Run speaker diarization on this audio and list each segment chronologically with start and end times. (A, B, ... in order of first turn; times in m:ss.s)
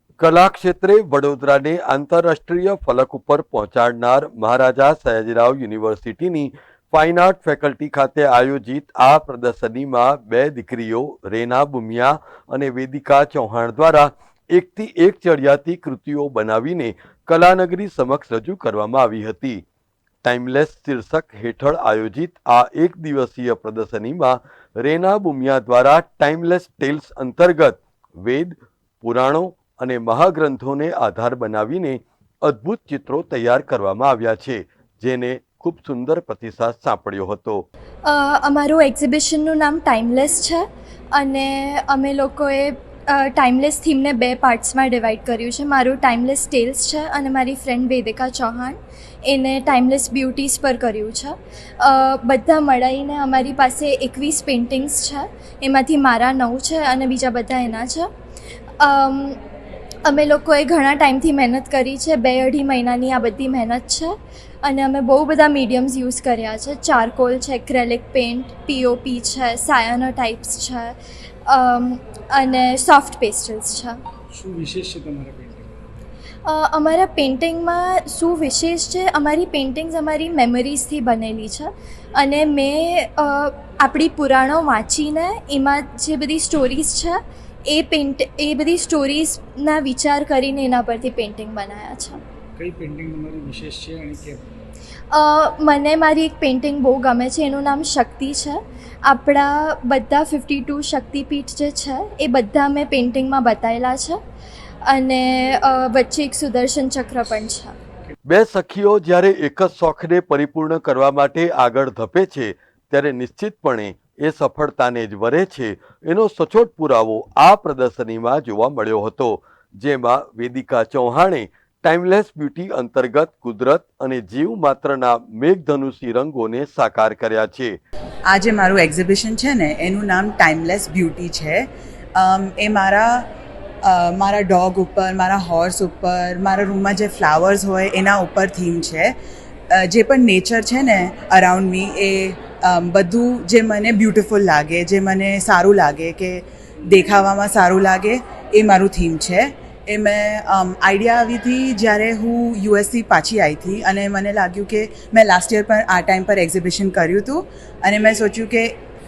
0:00.2-0:19.6 A
0:20.2-0:37.6 A
0:38.0-0:58.1 B
0:58.8-0:59.4 B
1:00.0-1:14.0 B
1:14.3-1:15.8 C
1:16.4-1:32.2 B
1:32.6-1:34.6 C
1:35.1-1:44.2 B
1:44.8-1:47.7 B
1:48.3-2:07.8 A
2:08.3-2:13.2 D
2:13.8-2:19.1 D
2:19.7-2:38.8 D